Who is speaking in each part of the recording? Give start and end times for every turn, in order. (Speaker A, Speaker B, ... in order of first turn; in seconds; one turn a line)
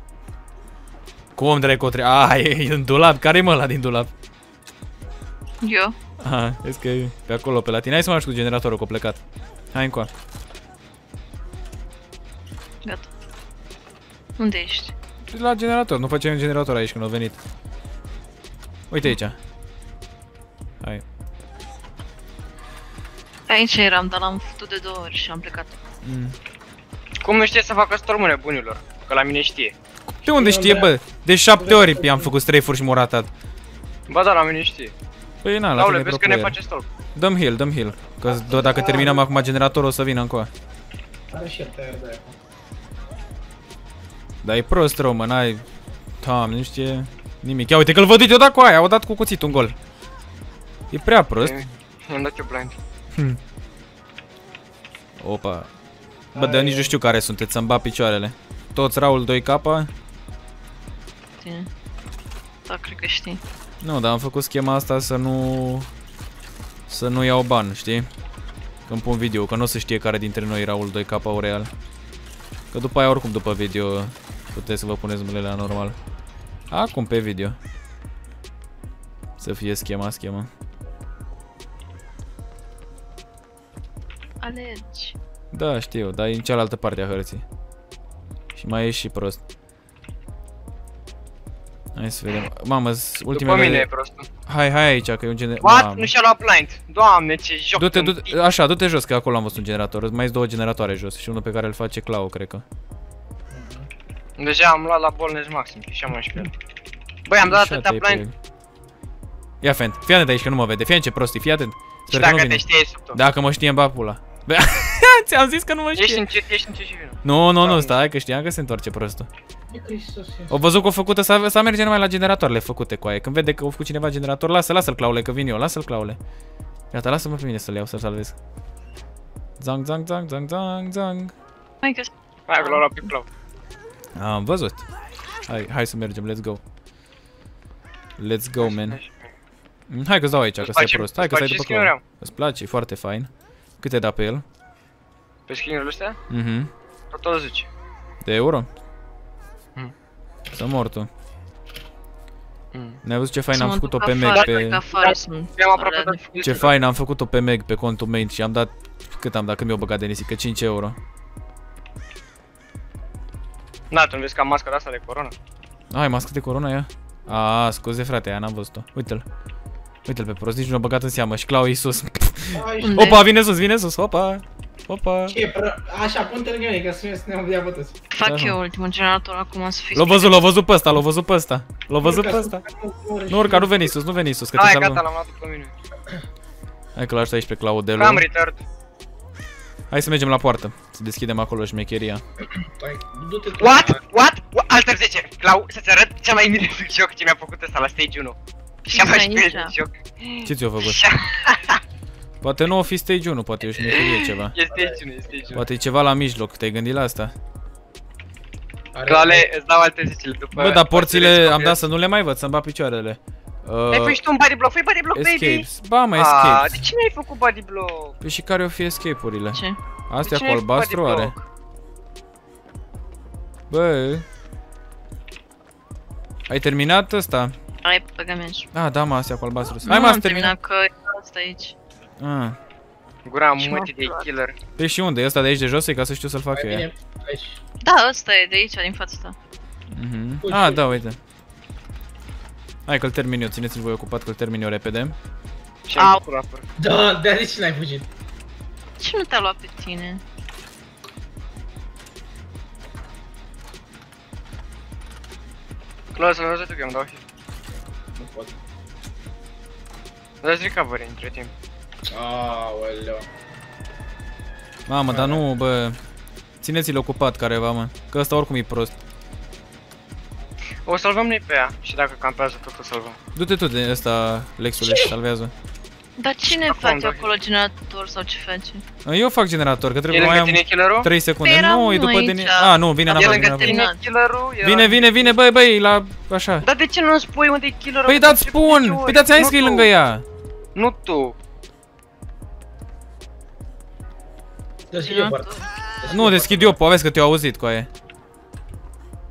Speaker A: 1.4-4.1
Speaker B: 5.6-6.0
Speaker A: 6.2-9.2
Speaker A: 9.7-10.1
Speaker B: 12.8-13.1
Speaker B: 14.4-14.9
Speaker A: 15.3-17.4
Speaker A: 18.9-19.4
Speaker B: 23.5-25.8
Speaker A: 26.0-26.4
Speaker C: 27.2-29.7
Speaker A: 30.2-33.3
Speaker D: 30.3-30.9
Speaker D: 31.5-32.3
Speaker C: 34.1-34.9
Speaker A: 35.4-36.6
Speaker C: 35.8-36.9
Speaker A: 37.1-40.5
Speaker D: 38.3-39.3
Speaker D: 41.3-42.3
Speaker A: 44.4-45.6
Speaker A: 46.2-49.8
Speaker A: 50.9-51.5
Speaker C: 51.4-52.8
Speaker A: 55.2-55.7
Speaker D: 56.3-56.9
Speaker A: 56.3-59.9
Speaker B: 61.4-61.7
Speaker B: 62.7-63.4
Speaker A: 63.8-65.9
Speaker A: 66.9-68.1
Speaker A: 68.9-71.7
Speaker A: 72.7-76.0
Speaker A: 76.7-77.6
Speaker A: 79.4-80.5
Speaker B: 84.4-85.2
Speaker A: 85.5-87.4
Speaker A: 88.5-89.4
Speaker A: 92.0-93.8
Speaker C: 93.3-94.3
Speaker A: 94.5-96.1
Speaker C: 95.6-98.3
Speaker A: 97.8-102.6
Speaker D: 103.5-103.9
Speaker C: 104.4-106.5
Speaker C: 107.2-108.2
Speaker A: 107.4-108.3
Speaker A: 109.6-116.2
Speaker C: 112.1-113.2
Speaker C: 116.0-117.9
Speaker A: 117.2-119.3
Speaker D: 119.7-120.5
Speaker A: 120.5-126.2
Speaker A: 126.9-128.3
Speaker A: 129.6-131.3
Speaker B: 131.8-132.8
Speaker C: 132.5-133.3
Speaker A: 134.2-134.8
Speaker A: 135.5-136.6
Speaker A: 138.2-139.0
Speaker C: 138.6-139.3
Speaker A: 139.9-144.4
Speaker C: 140.6-142.0
Speaker C: 145.5-146.2
Speaker A: 146.3-146.7
Speaker C: 147.1-147.7
Speaker A: 148.2-148.7
Speaker A: 150.5-151.1
Speaker C: 152.7-153.0
Speaker A: 153.0-154.8
Speaker B: 153.5-156.3
Speaker C: 154.3-156.7
Speaker A: 156.4-160.9
Speaker C: 163.9-165.3
Speaker A: 165.9-169.2
Speaker A: 170.1-175.4
Speaker D: 172.5-173.1
Speaker B: 172.8-173.2
Speaker D: 175.3-177.9
Speaker B: 178.1-180.5
Speaker A: 178.2-178.6
Speaker A: 179.9-182.6
Speaker D: 182.0-183.9
Speaker A: 183.3-185.0
Speaker C: 184.6-185.7
Speaker A: 186.9-188.2
Speaker C: 187.9-188.6
Speaker A: 189.9-192.2
Speaker D: 192.6-194.0
Speaker C: 193.6-201.8
Speaker B: 198.8-199.7
Speaker A: 200.4-201.0
Speaker A: 202.4-204.5
Speaker C: 203.8-205.6
Speaker D: 204.7-205.0
Speaker A: 205.5-207.3
Speaker D: 208.9-209.5
Speaker C: 209.0-211.8
Speaker A: 210.5-214.2
Speaker C: 213.9-218.2
Speaker A: 215.1-216.8
Speaker A: 218.2-221.3
Speaker B: 219.5-219.8
Speaker C: 220.2-221.4
Speaker A: 223.7-224.2
Speaker A: 226.5-227.5
Speaker B: 227.8-228.7
Speaker A: 228.7-230.5
Speaker B: 229.8-231.8
Speaker A: 232.2-232.6
Speaker C: 233.2-234.6
Speaker B: 233.6-234.2
Speaker A: 234.8-236.8
Speaker D: 236.5-237.6
Speaker B: 237.8-239.3
Speaker A: 239.9-241.2
Speaker D: 240.4-241.0
Speaker A: 242.8-245.2
Speaker C: 245.9-246.7
Speaker B: 245.9-246.2
Speaker D: 246.8-248.1
Speaker B: 249.0-250.2
Speaker C: 256.1-257.2
Speaker D: 258.1-258.5
Speaker C: 260.4-261.5
Speaker D: 262.1-263.3
Speaker A: 264.9-266.0
Speaker D: 265.1-265.4
Speaker A: 266.6-268.9
Speaker C: 270.8-273.2
Speaker A: 273.3-275.5
Speaker B: 276.2-278.8
Speaker C: 276.5-277.4
Speaker A: 279.0-283.8
Speaker C: 280.1-281.1
Speaker B: 281.4-284.0
Speaker C: 283.1-285.3
Speaker A: 284.6-286.6
Speaker C: 286.6-289.9
Speaker A: 288.1-290.2
Speaker C: 290.7-291.3
Speaker D: 294.9-296.8
Speaker B: 295.0-295.6
Speaker A: 296.1-297.9